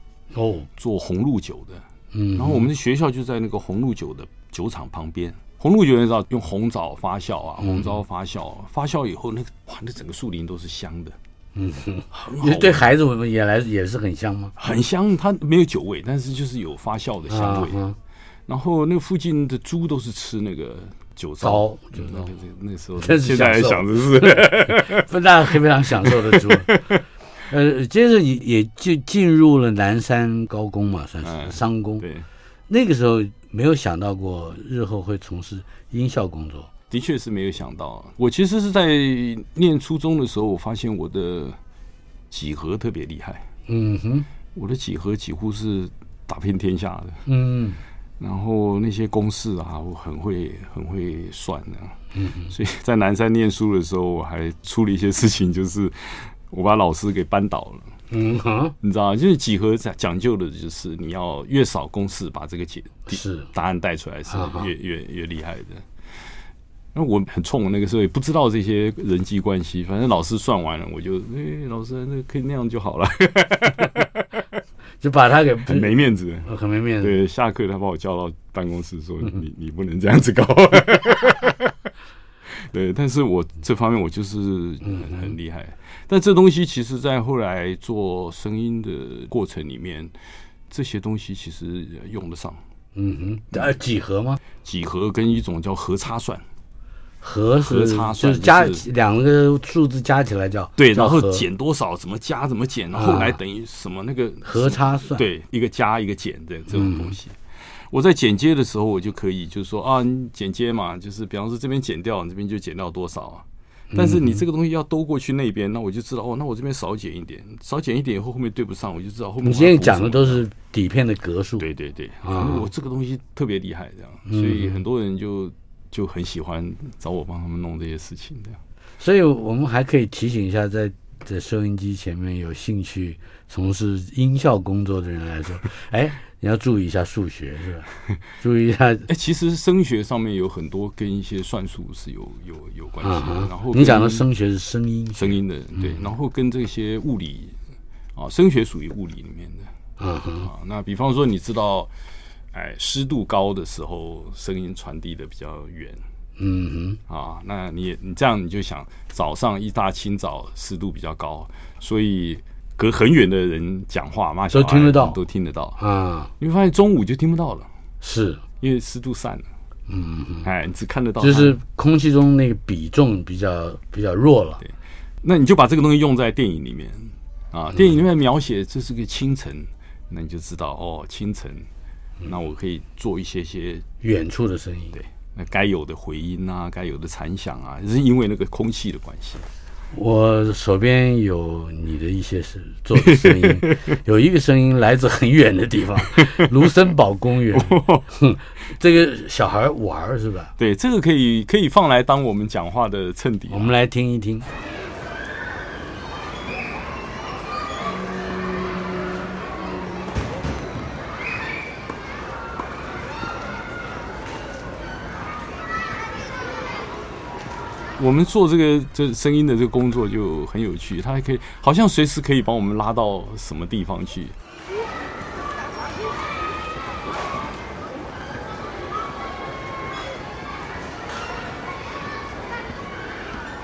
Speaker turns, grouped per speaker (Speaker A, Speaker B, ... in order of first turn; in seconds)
Speaker A: 0.3-0.7, 2.1-2.7, 7.6-8.0, 11.6-14.6, 17.3-18.0, 21.4-22.3, 23.0-26.8, 27.5-32.1, 32.7-36.7, 43.7-44.3, 47.3-47.8, 52.1-52.5, 58.1-58.8, 63.1-63.5, 64.3-64.7, 75.0-77.2, 84.8-85.3, 93.0-94.4, 97.2-101.4, 102.9-103.4, 104.4-105.2, 106.7-107.2, 113.9-114.4, 119.4-121.7, 122.2-122.7, 124.3-124.8, 129.0-137.9, 138.4-139.1, 143.0-146.0, 150.0-150.5, 156.4-157.0, 164.5-165.2, 165.8-166.3, 168.0-168.4, 169.9-170.5, 171.2-174.6, 184.0-185.0, 189.9-200.5, 203.5-204.5
Speaker B: 0.8-1.8, 2.4-11.2, 12.1-12.9, 14.6-17.8, 18.5-25.1, 26.0-27.0, 31.2-32.3, 36.9-41.6, 42.3-43.5, 44.5-47.2, 48.2-52.0, 52.5-57.9, 58.8-65.8, 66.9-74.3, 75.7-76.5, 77.0-81.7, 82.5-90.1, 90.7-92.6, 94.6-96.4, 97.6-98.8, 100.8-107.4, 107.9-120.4, 121.6-128.6, 139.1-144.3, 145.2-147.6, 148.2-149.7, 150.4-151.9, 152.5-156.0, 157.1-165.8, 166.4-167.7, 168.6-169.5, 170.4-171.6, 175.2-181.7, 182.2-183.8, 184.9-189.5, 192.9-193.9, 196.2-196.5, 197.5-198.1, 200.6-203.7, 218.0-224.4